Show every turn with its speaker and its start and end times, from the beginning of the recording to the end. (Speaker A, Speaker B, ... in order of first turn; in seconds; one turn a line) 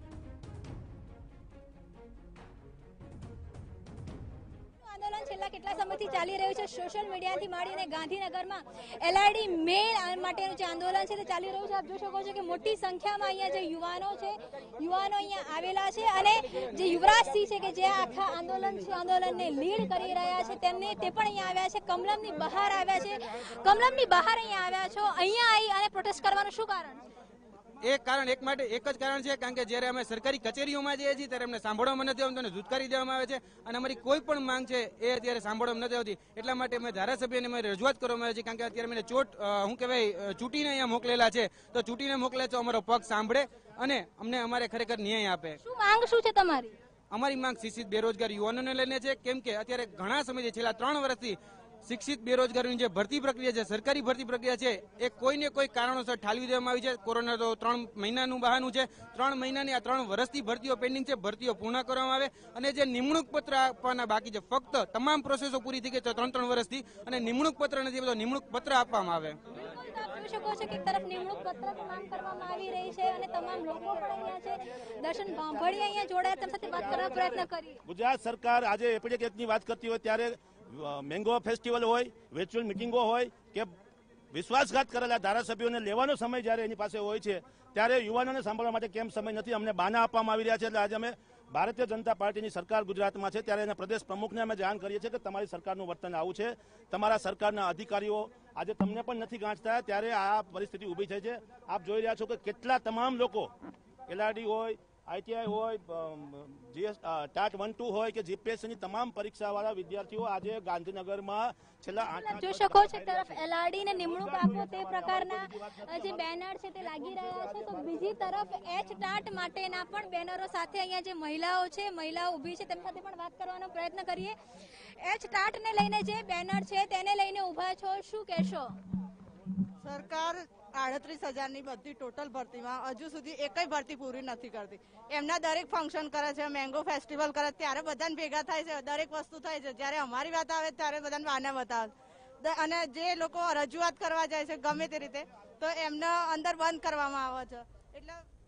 Speaker A: 4.8-27.0
Speaker B: 27.8-45.6
Speaker A: 45.6-46.8
Speaker B: 47.1-69.4
Speaker A: 69.5-77.8
Speaker C: 77.8-83.7
Speaker C: 84.3-103.5
Speaker C: 104.1-116.2
Speaker A: 112.0-124.3
Speaker A: 125.0-128.7
Speaker D: 129.8-141.9
Speaker D: 142.4-148.2